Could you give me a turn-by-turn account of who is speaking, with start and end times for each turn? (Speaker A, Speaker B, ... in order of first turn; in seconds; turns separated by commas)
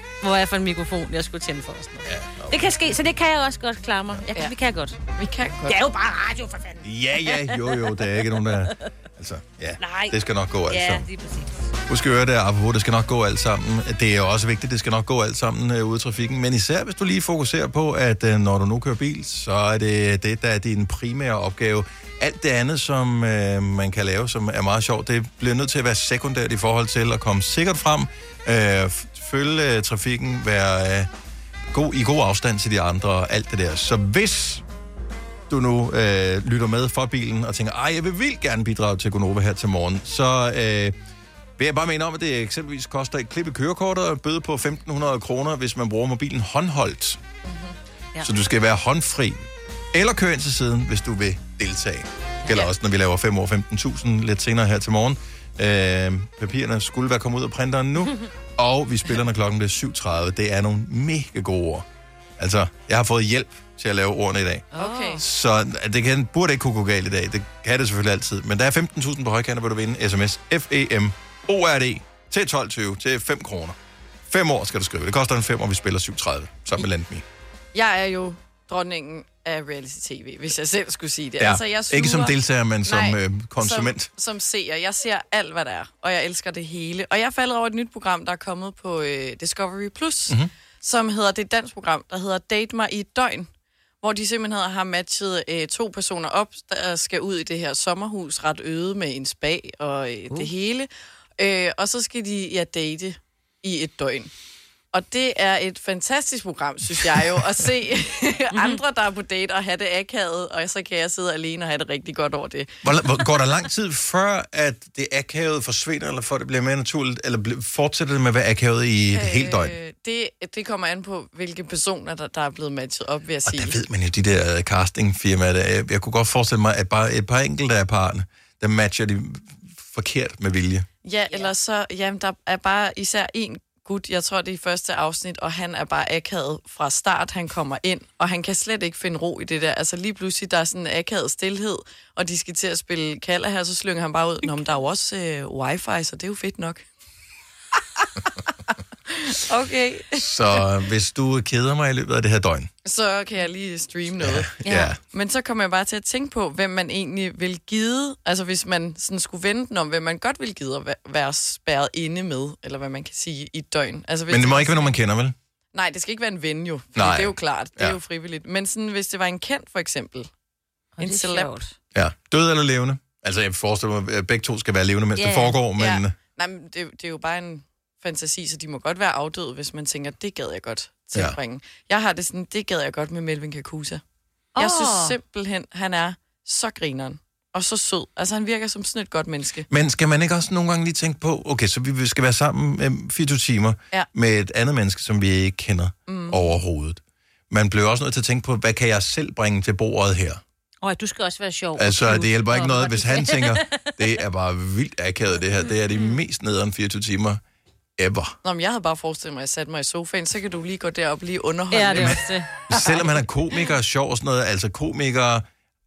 Speaker A: 0.2-5.0, Speaker B: 2.1-2.7, Speaker C: 5.1-5.8, Speaker A: 5.7-7.7, Speaker B: 6.8-11.0, Speaker A: 9.8-10.1, Speaker A: 10.7-11.7, Speaker B: 11.9-31.1, Speaker B: 31.7-34.6, Speaker B: 35.5-40.9, Speaker B: 41.6-47.2, Speaker C: 47.5-47.7, Speaker B: 48.2-61.9, Speaker B: 62.4-73.8, Speaker A: 64.7-65.2, Speaker C: 64.7-65.2, Speaker B: 74.3-77.2, Speaker C: 77.7-93.5, Speaker B: 81.4-84.1, Speaker C: 94.0-104.3, Speaker C: 104.9-112.7, Speaker A: 108.5-108.8, Speaker B: 112.8-119.7, Speaker C: 119.1-123.8, Speaker B: 123.4-130.9, Speaker C: 131.0-146.8, Speaker C: 147.8-148.1, Speaker C: 149.1-150.2, Speaker B: 150.2-152.7, Speaker C: 152.8-154.5, Speaker B: 154.2-155.0, Speaker A: 154.6-154.9, Speaker C: 155.1-164.9, Speaker B: 164.3-165.3, Speaker C: 165.7-170.3, Speaker B: 166.9-168.0, Speaker A: 171.0-171.7, Speaker C: 171.0-171.6, Speaker B: 171.9-176.1, Speaker A: 175.2-175.6, Speaker C: 175.8-184.0, Speaker A: 184.6-185.1, Speaker C: 184.6-189.7, Speaker B: 189.7-200.4, Speaker C: 196.1-196.4, Speaker A: 200.8-203.9, Speaker B: 201.8-207.4, Speaker B: 208.0-208.4, Speaker C: 208.4-212.2, Speaker A: 211.7-212.7, Speaker B: 212.7-215.4